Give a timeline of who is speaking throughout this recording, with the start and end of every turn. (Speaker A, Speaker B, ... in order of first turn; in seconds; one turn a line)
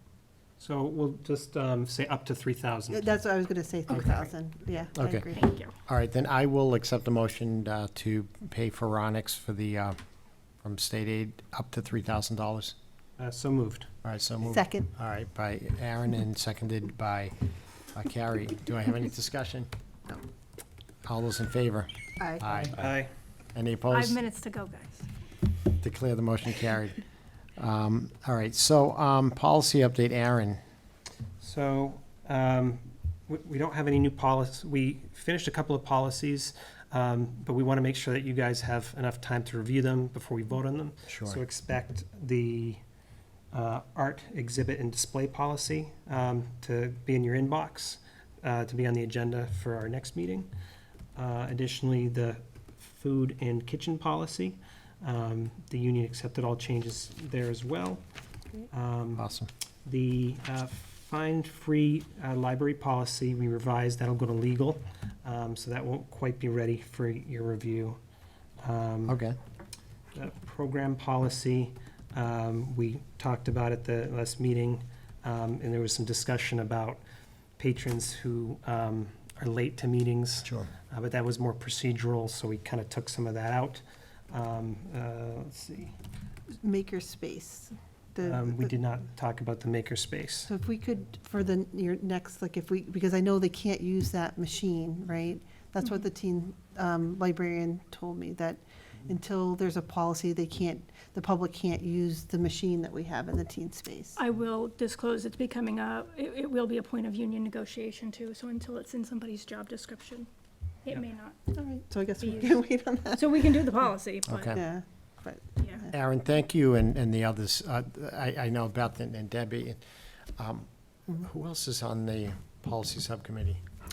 Speaker A: 0.6-3.1
Speaker B: 2.9-5.4
Speaker A: 3.9-4.2
Speaker C: 4.9-5.3
Speaker D: 5.3-5.7
Speaker C: 5.8-10.0
Speaker C: 10.6-12.8
Speaker A: 13.2-13.9
Speaker C: 14.0-17.3
Speaker B: 14.4-14.9
Speaker C: 17.9-19.7
Speaker C: 21.1-22.8
Speaker B: 22.2-22.5
Speaker A: 22.7-23.1
Speaker C: 23.5-24.2
Speaker D: 23.9-25.1
Speaker C: 25.8-27.0
Speaker C: 27.6-30.6
Speaker A: 31.4-42.8
Speaker C: 41.1-41.4
Speaker A: 43.5-50.5
Speaker A: 51.1-58.0
Speaker A: 58.7-59.3
Speaker C: 59.2-59.5
Speaker A: 59.8-68.0
Speaker A: 68.6-69.2
Speaker C: 69.1-69.4
Speaker A: 70.1-77.0
Speaker A: 77.6-85.9
Speaker C: 80.4-80.7
Speaker B: 86.6-88.7
Speaker A: 88.2-90.5
Speaker B: 90.5-104.2
Speaker D: 104.2-110.3
Speaker D: 110.8-111.4
Speaker B: 111.5-113.5
Speaker D: 112.2-112.6
Speaker D: 113.1-114.5
Speaker C: 114.3-114.6
Speaker B: 114.5-115.9
Speaker D: 115.6-115.8
Speaker C: 115.9-119.8
Speaker C: 120.4-123.6